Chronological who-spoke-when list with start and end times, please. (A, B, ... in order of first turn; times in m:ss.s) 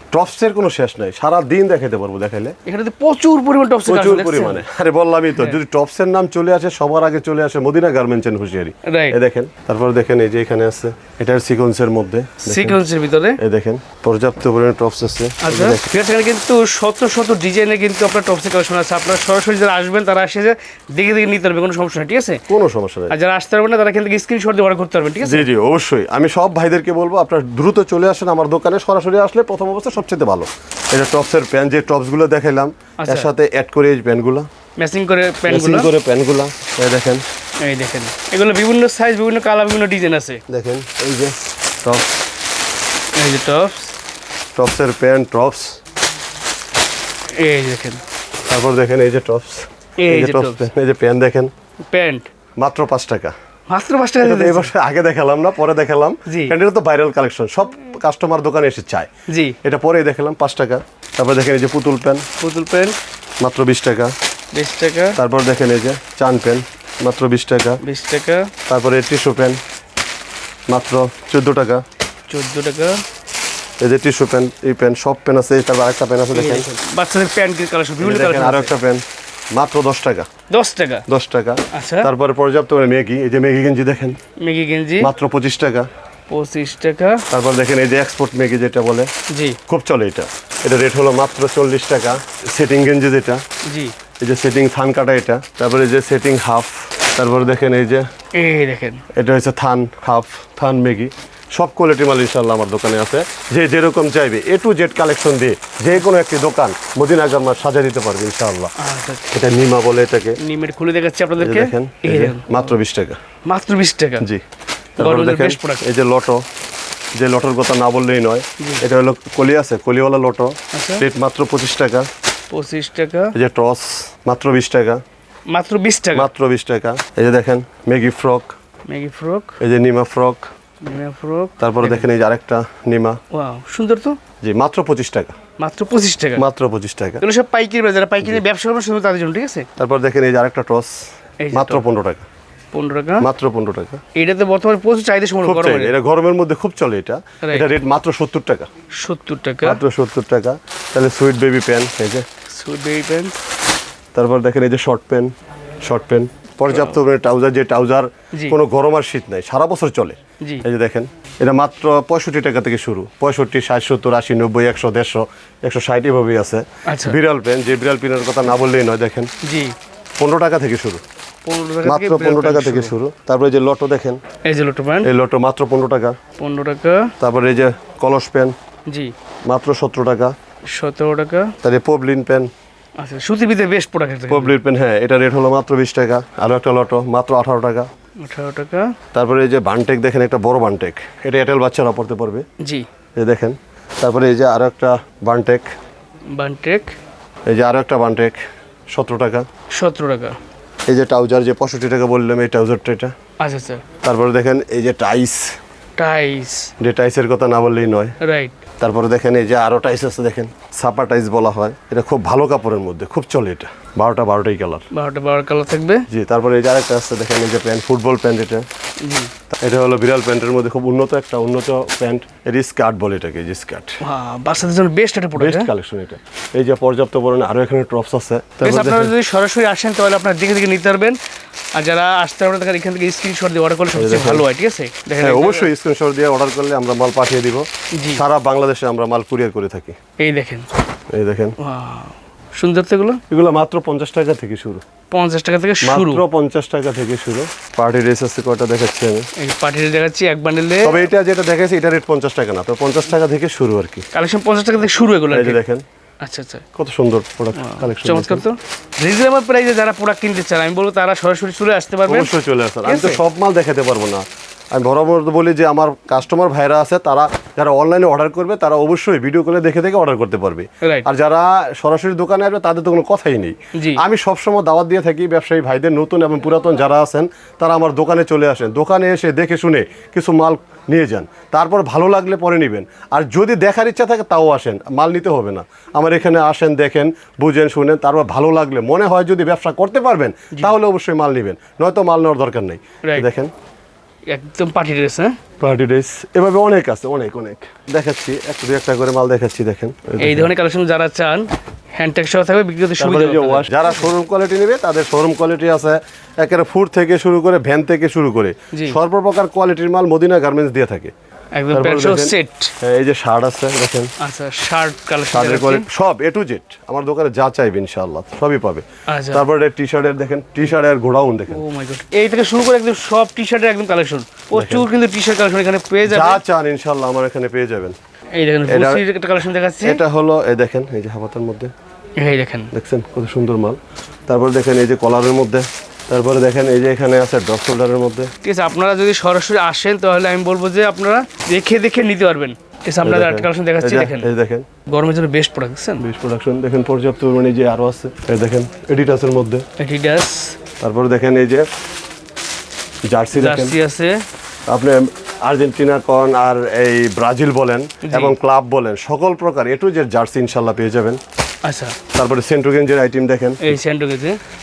0:00.1-0:02.5 A
0:02.7-0:04.6 B
0:03.9-0:12.8 A
0:08.9-0:09.2 B
0:12.4-0:13.4 B
0:13.4-0:15.9 A
0:15.4-0:22.4 B
0:22.5-0:23.1 A
0:23.1-0:25.5 B
0:25.2-0:34.5 A
0:33.0-0:33.3 B
0:34.8-0:35.9 B
0:35.5-0:37.2 A
0:37.6-0:40.4 B
0:40.5-0:42.2 A
0:43.2-0:44.0 B
0:44.6-0:45.8 A
0:47.4-0:48.0 B
0:48.5-0:51.5 A
0:50.0-0:50.7 B
0:51.8-0:52.3 B
0:52.6-0:53.3 A
0:53.7-0:54.7 B
0:54.2-0:59.1 A
0:56.3-0:56.5 B
0:59.3-0:59.6 B
0:59.6-1:02.2 A
1:02.4-1:03.0 B
1:03.4-1:04.1 A
1:04.5-1:05.2 B
1:05.2-1:07.8 A
1:07.8-1:08.5 B
1:08.7-1:09.6 A
1:10.7-1:11.8 A
1:12.3-1:13.0 B
1:13.8-1:16.7 A
1:16.3-1:18.7 B
1:18.0-1:20.3 A
1:20.5-1:21.0 B
1:21.1-1:24.2 A
1:21.7-1:22.1 B
1:24.4-1:25.1 B
1:25.0-1:25.9 A
1:26.3-1:27.2 B
1:27.3-1:29.1 A
1:29.3-1:29.6 B
1:29.7-1:33.4 A
1:33.7-1:33.9 B
1:34.2-1:38.1 A
1:38.4-1:39.0 B
1:39.1-1:48.7 A
1:48.8-1:49.3 B
1:49.3-1:50.4 A
1:50.4-1:52.7 B
1:51.4-1:53.2 A
1:53.4-1:54.2 B
1:55.0-1:56.4 A
1:55.0-1:55.8 B
1:57.2-2:02.1 A
2:00.7-2:01.0 B
2:02.5-2:03.3 B
2:03.3-2:05.0 A
2:05.5-2:06.3 B
2:06.1-2:08.6 A
2:08.9-2:09.6 B
2:09.6-2:10.5 A
2:10.8-2:12.1 B
2:11.6-2:13.2 A
2:13.3-2:14.2 B
2:14.4-2:15.4 A
2:15.6-2:16.4 B
2:16.4-2:17.2 A
2:17.2-2:19.7 B
2:19.8-2:22.2 A
2:21.4-2:21.8 B
2:22.7-2:23.3 B
2:23.2-2:24.0 A
2:24.1-2:25.9 B
2:25.4-2:28.7 A
2:29.0-2:29.8 B
2:29.6-2:32.2 A
2:32.5-2:33.4 B
2:34.1-2:35.3 A
2:35.8-2:49.3 A
2:36.7-2:36.9 B
2:46.9-2:47.2 B
2:49.4-2:49.8 B
2:50.2-2:51.0 A
2:51.4-2:52.9 B
2:51.8-2:54.2 A
2:54.4-2:55.1 B
2:55.0-2:56.2 A
2:56.4-2:57.1 B
2:57.2-2:58.6 A
2:58.9-2:59.1 B
2:59.4-3:00.4 A
3:00.7-3:01.5 B
3:01.6-3:02.5 A
3:03.0-3:04.6 B
3:04.3-3:07.9 A
3:08.2-3:08.9 B
3:09.1-3:12.4 A
3:12.6-3:12.9 B
3:13.2-3:15.7 A
3:16.3-3:17.0 B
3:17.5-3:18.4 A
3:18.9-3:19.5 A
3:19.7-3:20.4 B
3:20.9-3:23.1 A
3:23.4-3:23.8 B
3:24.0-3:25.6 A
3:26.0-3:26.7 B
3:26.8-3:28.1 A
3:28.2-3:28.5 B
3:28.8-3:34.8 A
3:34.9-3:36.0 B
3:36.1-3:38.7 A
3:39.0-3:39.3 B
3:39.5-3:44.0 A
3:44.0-3:45.7 B
3:45.4-3:49.1 A
3:48.6-3:51.2 B
3:51.8-3:55.7 B
3:53.9-3:54.4 A
3:55.2-4:00.0 A
4:00.2-4:00.7 B
4:01.1-4:01.6 A
4:01.6-4:03.2 B
4:03.3-4:04.8 A
4:05.1-4:06.2 B
4:05.8-4:09.3 A
4:09.4-4:11.0 B
4:10.8-4:14.1 A
4:14.1-4:15.6 B
4:15.3-4:15.8 A
4:16.2-4:16.6 B
4:16.8-4:18.4 A
4:17.6-4:22.3 B
4:22.1-4:53.5 A
4:22.8-4:23.2 B
4:30.8-4:31.1 B
4:33.8-4:34.0 B
4:54.3-4:55.4 B
4:55.6-5:00.5 A
5:00.2-5:04.0 B
5:03.0-5:11.1 A
5:11.5-5:12.7 B
5:11.7-5:14.1 A
5:14.2-5:15.9 B
5:15.3-5:21.6 A
5:19.1-5:19.5 B
5:21.5-5:26.4 B
5:24.5-5:24.9 A
5:26.0-5:28.0 A
5:28.4-5:30.0 B
5:28.7-5:29.0 A
5:29.8-5:31.7 A
5:32.2-5:32.7 B
5:32.7-5:38.3 A
5:38.4-5:44.3 B
5:43.0-5:44.7 A
5:44.9-5:46.0 B
5:46.0-5:49.6 A
5:49.8-5:50.6 B
5:50.8-5:51.7 A
5:53.1-5:53.8 A
5:53.3-5:54.2 B
5:54.7-6:01.2 A
5:58.0-5:58.3 B
6:01.6-6:02.0 B
6:02.1-6:03.8 A
6:03.6-6:04.4 B